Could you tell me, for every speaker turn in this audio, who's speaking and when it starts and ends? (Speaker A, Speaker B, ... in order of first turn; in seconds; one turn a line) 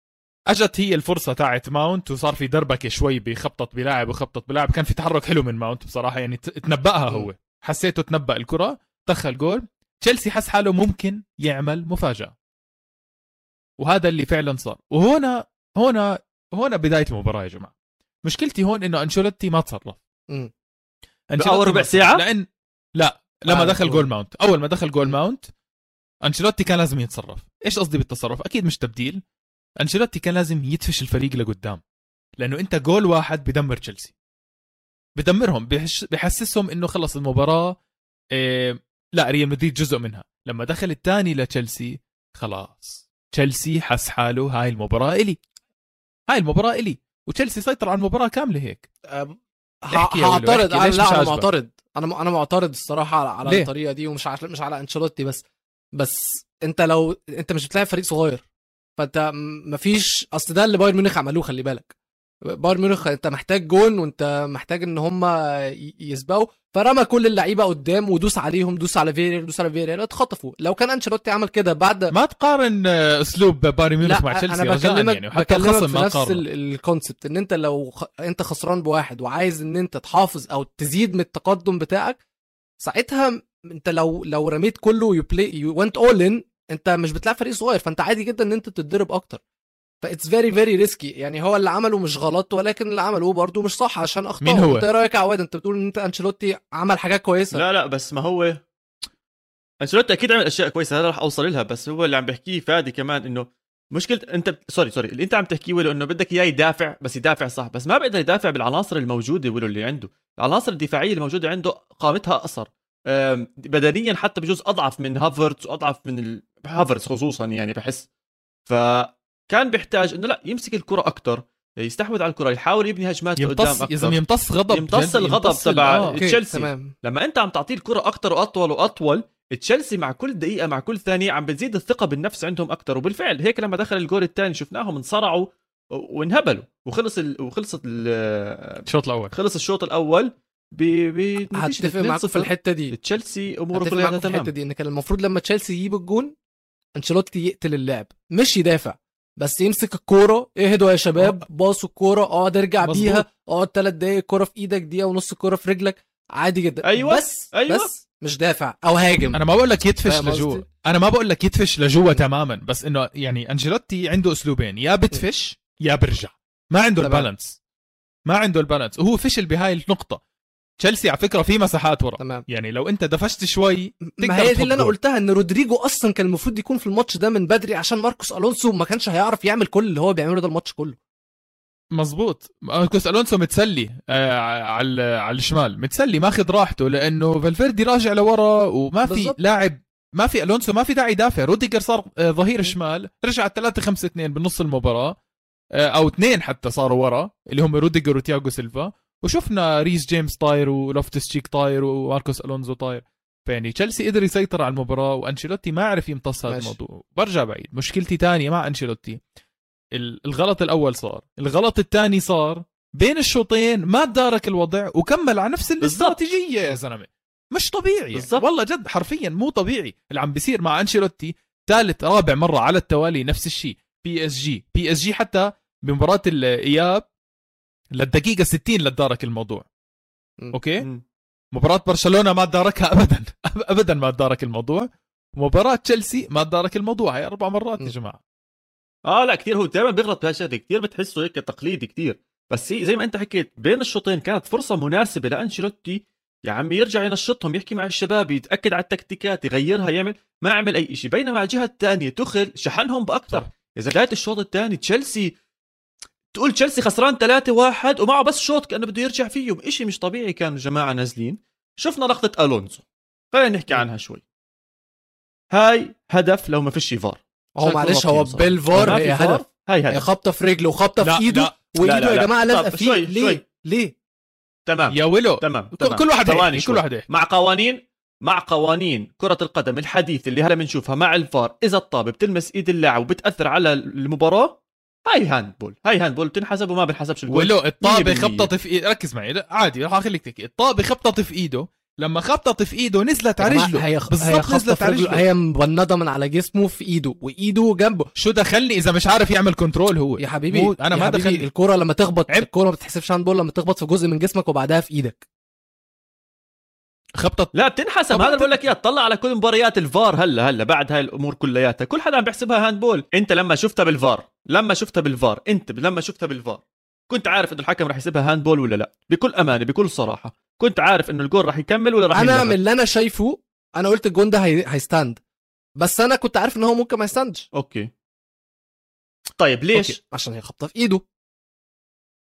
Speaker A: 0.5-12.3
Speaker A: 13.8-17.7
Speaker A: 18.2-20.0
Speaker A: 21.3-22.4
Speaker B: 21.4-22.2
Speaker A: 23.0-25.5
Speaker C: 23.5-24.1
Speaker A: 26.2-29.2
Speaker A: 29.8-31.8
Speaker A: 32.4-34.1
Speaker A: 35.1-37.8
Speaker A: 38.3-45.4
Speaker A: 46.3-48.8
Speaker C: 49.1-55.4
Speaker A: 49.9-51.5
Speaker C: 56.0-58.4
Speaker C: 59.0-61.9
Speaker C: 62.5-72.1
Speaker A: 72.1-76.4
Speaker C: 74.0-82.2
Speaker C: 82.8-89.4
Speaker C: 90.0-97.6
Speaker A: 94.4-94.9
Speaker B: 97.5-98.6
Speaker B: 99.8-118.1
Speaker B: 118.7-124.2
Speaker A: 123.4-126.2
Speaker B: 124.7-144.5
Speaker C: 126.1-126.9
Speaker A: 138.9-139.3
Speaker C: 141.5-142.9
Speaker C: 143.7-146.3
Speaker C: 147.0-159.4
Speaker A: 152.8-153.2
Speaker B: 156.8-157.9
Speaker A: 159.3-167.6
Speaker C: 160.0-160.6
Speaker C: 167.0-167.3
Speaker A: 168.2-170.2
Speaker A: 170.8-174.9
Speaker C: 172.2-172.4
Speaker C: 174.1-180.9
Speaker A: 181.9-195.1
Speaker C: 189.1-189.4
Speaker A: 195.8-209.2
Speaker C: 206.5-206.7
Speaker A: 209.9-227.0
Speaker B: 215.8-216.2
Speaker B: 218.1-218.4
Speaker A: 227.9-229.7
Speaker A: 230.5-230.9
Speaker A: 231.5-238.2
Speaker B: 239.1-255.3
Speaker B: 256.3-264.2
Speaker B: 265.5-270.0
Speaker C: 267.6-273.9
Speaker A: 271.0-271.5
Speaker B: 271.8-273.4
Speaker B: 274.7-288.5
Speaker A: 274.9-277.1
Speaker A: 287.3-295.2
Speaker C: 293.4-298.1
Speaker A: 298.1-301.5
Speaker C: 300.2-305.2
Speaker A: 307.2-307.5
Speaker B: 307.5-322.6
Speaker C: 322.1-325.2
Speaker C: 325.8-327.4
Speaker B: 327.5-327.9
Speaker B: 329.4-329.9
Speaker C: 329.8-331.0